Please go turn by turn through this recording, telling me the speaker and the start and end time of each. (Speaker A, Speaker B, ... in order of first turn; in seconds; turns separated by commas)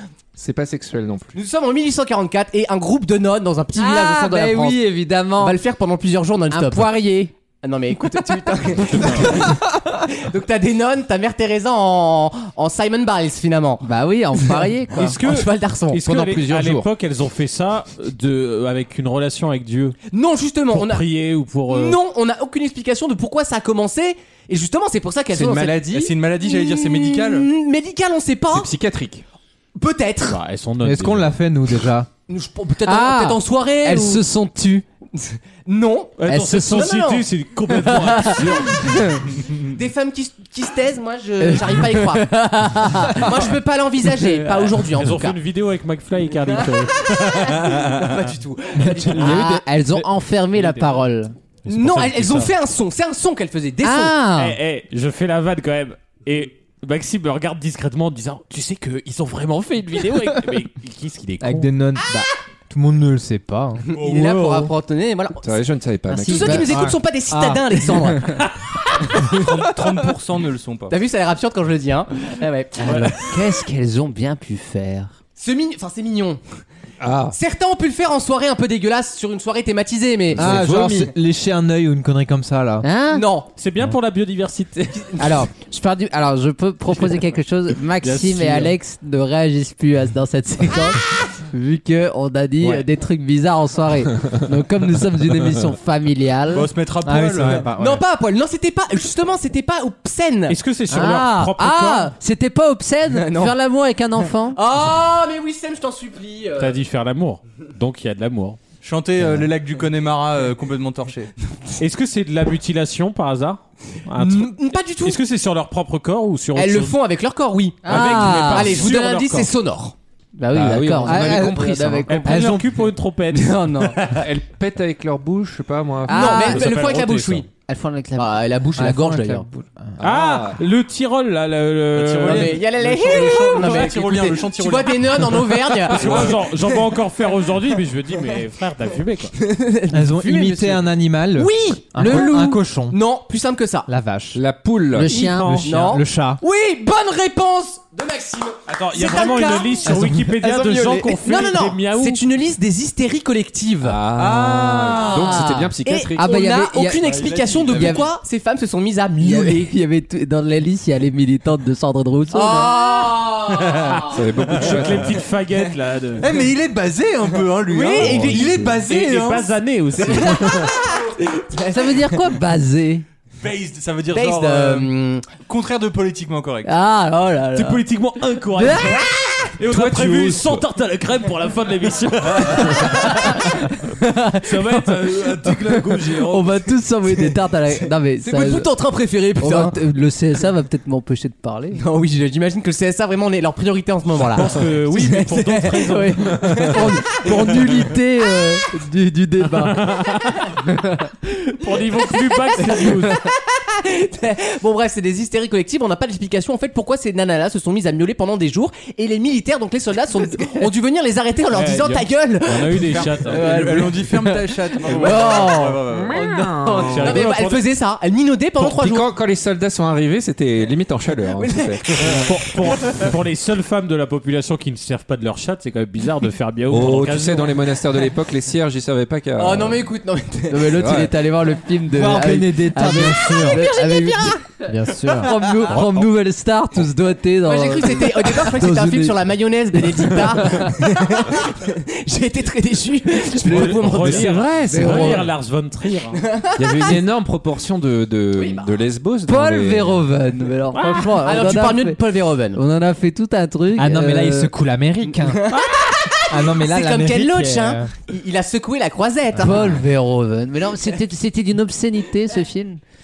Speaker A: 0.3-1.3, Speaker B: 1.3-7.0, Speaker C: 3.8-5.6, Speaker C: 6.5-7.3, Speaker B: 7.6-13.8, Speaker D: 8.8-9.5, Speaker C: 13.8-15.2, Speaker B: 14.9-16.4, Speaker D: 14.9-20.0, Speaker B: 20.1-21.1, Speaker D: 20.7-22.0, Speaker B: 21.7-25.9, Speaker A: 25.3-26.1, Speaker E: 25.8-27.5, Speaker B: 26.4-28.7, Speaker A: 28.5-29.2, Speaker B: 29.8-30.4, Speaker D: 30.3-31.4, Speaker F: 30.8-32.1, Speaker B: 32.3-34.2, Speaker C: 32.9-34.8, Speaker B: 35.1-37.3, Speaker D: 36.2-39.2, Speaker C: 36.3-36.9, Speaker C: 38.8-39.2, Speaker B: 39.5-42.3, Speaker C: 41.4-43.5, Speaker B: 43.1-45.4, Speaker C: 44.1-44.6, Speaker D: 44.9-47.9, Speaker B: 46.5-49.6, Speaker C: 49.0-51.3, Speaker D: 51.6-52.5, Speaker B: 51.7-54.1, Speaker C: 53.8-54.6, Speaker D: 54.3-61.7, Speaker F: 61.4-63.8, Speaker B: 63.8-65.5, Speaker E: 63.9-64.7, Speaker A: 65.4-66.7, Speaker C: 66.1-66.7, Speaker B: 66.1-68.4, Speaker F: 66.5-68.3, Speaker E: 69.1-71.0, Speaker B: 70.9-73.1, Speaker D: 72.8-73.1, Speaker C: 72.8-75.1, Speaker B: 75.4-76.4, Speaker A: 77.0-77.3, Speaker B: 77.3-80.5, Speaker A: 80.3-81.1, Speaker F: 80.3-82.8, Speaker C: 82.8-83.2, Speaker B: 83.1-83.5, Speaker D: 83.6-85.3, Speaker C: 85.2-96.7, Speaker D: 88.0-88.7, Speaker E: 96.5-97.7, Speaker F: 97.0-98.0, Speaker B: 97.8-100.6, Speaker D: 100.5-102.1, Speaker C: 100.9-104.6, Speaker B: 103.1-103.5, Speaker B: 104.5-106.8, Speaker D: 106.6-108.6, Speaker E: 108.8-111.3, Speaker D: 111.8-117.0, Speaker B: 114.2-115.2, Speaker B: 116.5-119.9, Speaker C: 117.8-118.9, Speaker D: 117.8-119.5, Speaker C: 120.3-122.4, Speaker A: 120.5-122.2, Speaker F: 121.0-121.6, Speaker D: 122.1-123.9, Speaker F: 122.2-122.7, Speaker B: 123.3-124.2, Speaker A: 124.1-126.5, Speaker C: 126.1-126.6, Speaker B: 126.1-127.5, Speaker D: 126.2-127.5, Speaker C: 127.7-129.9, Speaker B: 128.2-129.5, Speaker A: 130.0-130.6, Speaker D: 130.0-132.6, Speaker E: 131.9-136.3, Speaker B: 132.2-136.5, Speaker D: 135.9-139.3, Speaker A: 136.0-136.3, Speaker B: 139.4-143.9, Speaker F: 139.9-143.0, Speaker F: 143.9-144.4, Speaker A: 144.3-145.3, Speaker C: 144.9-146.0, Speaker D: 145.0-145.7, Speaker F: 145.4-146.4, Speaker B: 145.6-159.7, Speaker D: 148.7-152.2, Speaker A: 153.8-156.3, Speaker E: 154.2-155.1, Speaker C: 156.2-158.1, Speaker E: 157.0-158.1, Speaker C: 159.2-162.8, Speaker B: 162.3-164.2, Speaker A: 164.1-165.2, Speaker D: 164.5-166.4, Speaker E: 166.2-169.5, Speaker B: 167.6-168.7, Speaker A: 167.9-168.8, Speaker D: 168.8-170.7, Speaker B: 170.0-172.1, Speaker C: 171.5-173.0, Speaker E: 173.4-176.7, Speaker B: 174.1-175.3, Speaker C: 176.6-177.8, Speaker D: 177.5-183.6, Speaker C: 178.5-179.1, Speaker A: 179.6-180.6, Speaker C: 182.9-188.7, Speaker D: 184.4-186.5, Speaker B: 188.2-189.8, Speaker C: 189.4-191.8, Speaker B: 191.8-197.8, Speaker D: 194.2-196.8, Speaker C: 195.9-199.9, Speaker D: 199.4-200.6, Speaker C: 200.6-201.1, Speaker D: 201.4-203.2, Speaker B: 202.6-215.8, Speaker D: 211.5-213.5, Speaker E: 212.9-216.2, Speaker A: 216.1-217.3, Speaker B: 216.6-219.1, Speaker D: 216.8-217.6, Speaker A: 218.6-222.2, Speaker B: 221.4-222.3, Speaker D: 222.1-227.6, Speaker A: 226.7-229.9, Speaker B: 229.4-230.9, Speaker C: 230.5-239.2, Speaker A: 230.7-231.3, Speaker F: 231.9-233.8, Speaker B: 233.6-234.4, Speaker F: 234.7-235.3, Speaker B: 237.4-244.4, Speaker C: 239.8-240.8, Speaker D: 243.4-246.2, Speaker A: 243.6-245.3, Speaker C: 244.7-245.3, Speaker A: 246.6-250.1, Speaker B: 248.4-248.7, Speaker C: 249.3-252.0, Speaker D: 250.7-251.4, Speaker B: 251.2-252.6, Speaker C: 252.5-254.5, Speaker F: 253.8-255.5, Speaker B: 255.3-259.8, Speaker F: 256.3-257.9, Speaker C: 259.4-262.8